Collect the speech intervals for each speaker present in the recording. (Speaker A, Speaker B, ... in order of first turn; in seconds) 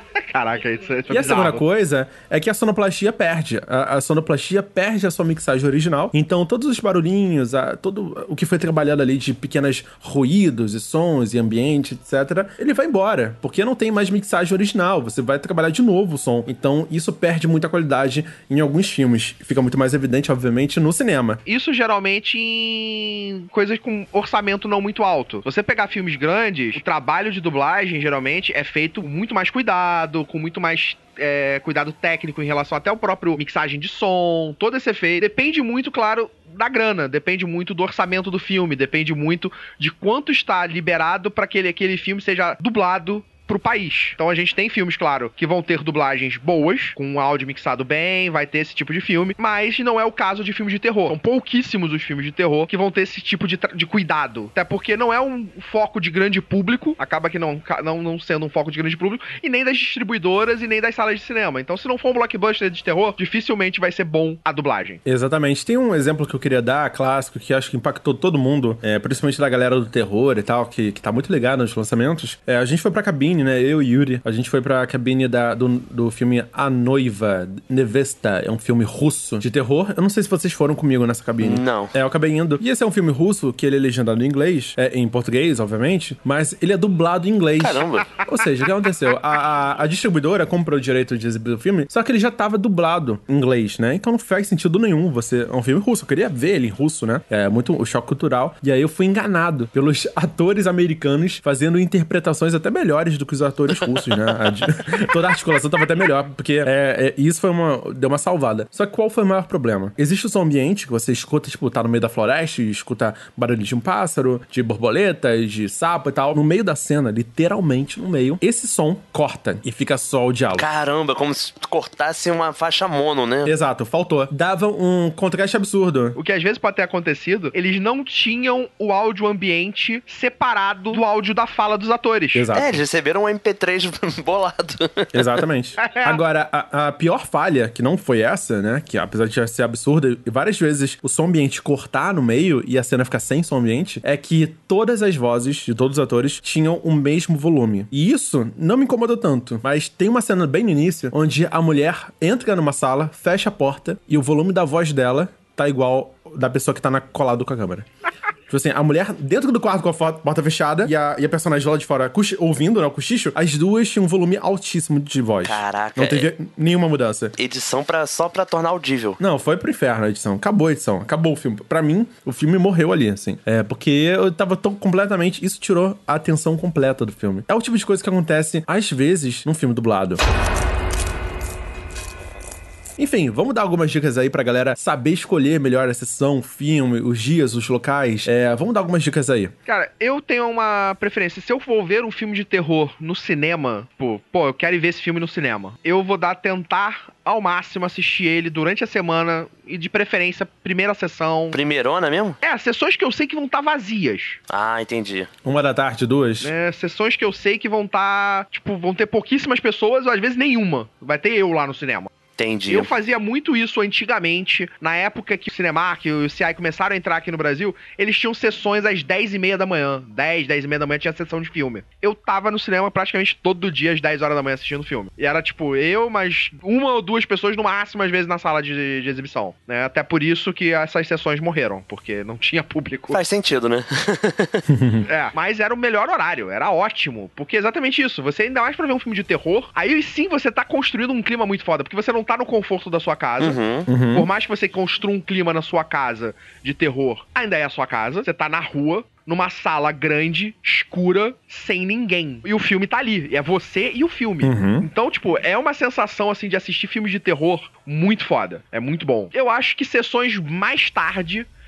Speaker A: 0.3-1.6, 21.4-65.0, 126.2-132.5, 135.8-136.2, 189.7-201.6, 202.4-204.4, 206.4-212.1, 212.7-233.2, 235.1-261.5
Speaker B: 1.1-21.4, 65.0-120.7, 123.4-126.2, 132.3-132.8, 135.1-157.8, 158.5-167.3, 169.2-180.2, 183.0-189.5, 205.4-206.5, 234.7-235.1, 243.9-244.3, 254.4-254.9
Speaker C: 81.4-81.9, 87.6-88.2, 120.5-123.5, 132.5-135.4, 165.4-166.3, 167.4-169.2, 201.5-202.4, 204.5-205.3, 212.4-212.9, 233.1-234.6, 243.4-243.9